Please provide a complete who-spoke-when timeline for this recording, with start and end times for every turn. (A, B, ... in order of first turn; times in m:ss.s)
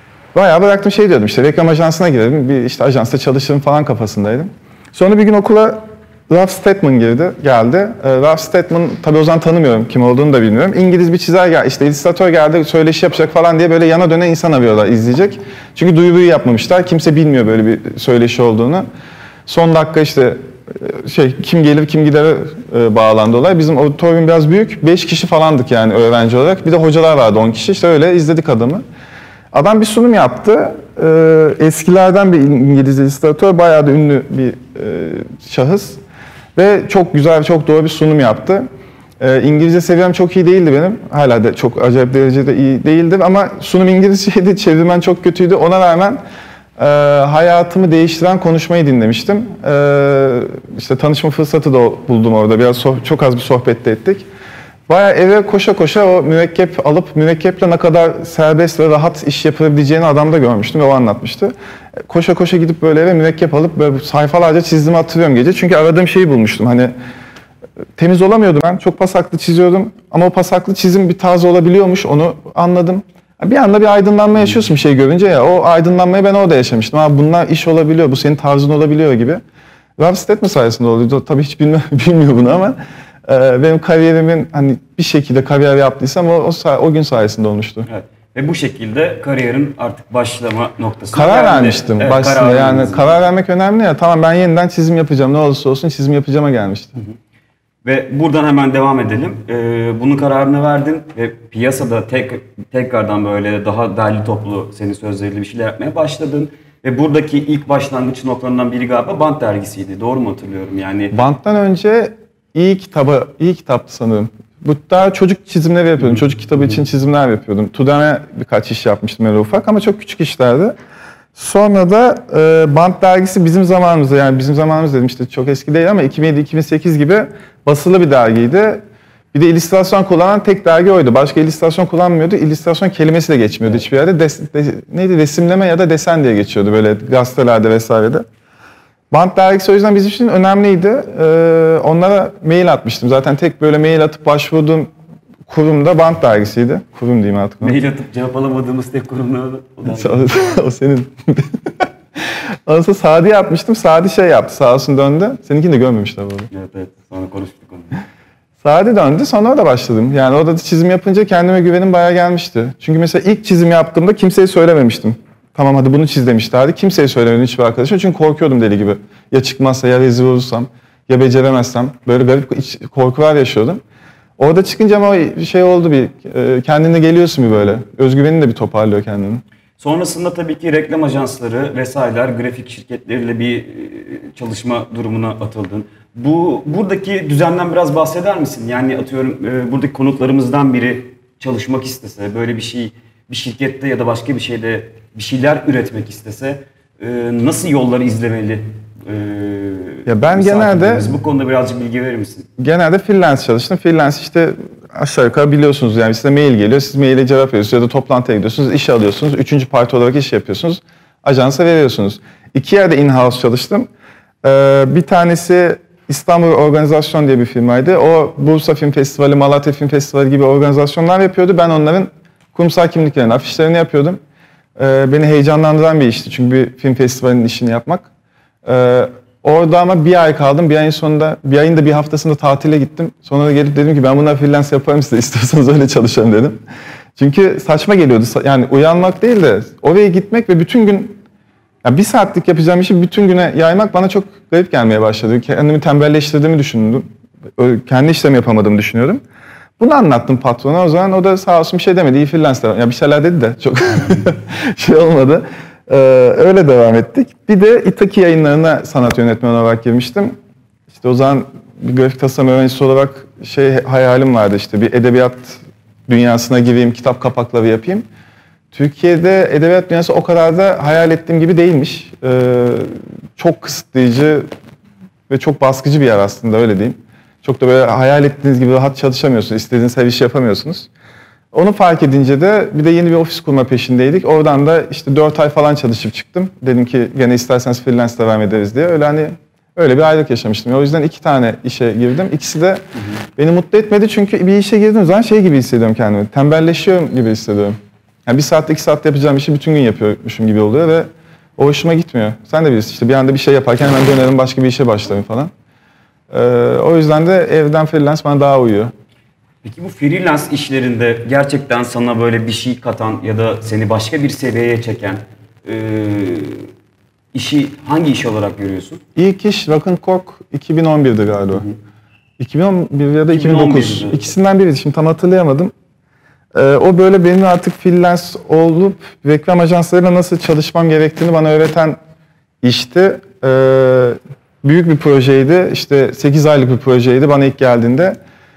0:00.3-0:18.9 A
0:19.5-0:28.8 A
0:29.5-0:36.0 A
0:36.6-0:38.7 A
0:39.2-0:46.2 A
0:46.8-0:54.3 A
0:54.9-1:01.5 A
1:02.1-1:06.9 A
1:08.0-1:19.4 A
1:20.0-1:27.9 A
1:27.9-1:33.2 B
1:31.1-1:37.0 A
1:37.8-1:51.1 B
1:51.1-2:00.8 A
1:56.0-1:56.8 B
2:01.4-2:18.3 A
2:19.1-2:24.9 A
2:25.5-2:27.8 A
2:27.6-2:30.4 B
2:29.8-2:36.5 A
2:36.5-2:38.0 B
2:38.6-2:53.8 A
2:54.4-2:59.4 A
2:59.8-3:22.5 B
3:20.1-3:21.1 A
3:22.6-3:33.9 A
3:34.4-3:44.2 A
3:44.8-3:48.1 A
3:48.6-3:56.6 A
3:57.2-4:01.2 A
4:01.8-4:09.2 A
4:09.8-4:20.4 A
4:20.9-4:28.1 A
4:28.7-4:34.5 A
4:35.3-4:40.9 A
4:41.5-4:52.8 A
4:53.4-5:05.5 A
5:06.3-5:08.9 A
5:09.6-5:16.7 B
5:17.3-5:19.0 B
5:19.2-5:21.6 A
5:21.5-5:21.8 B
5:22.4-5:25.7 A
5:23.3-5:24.2 B
5:26.5-5:32.0 A
5:32.6-5:38.2 A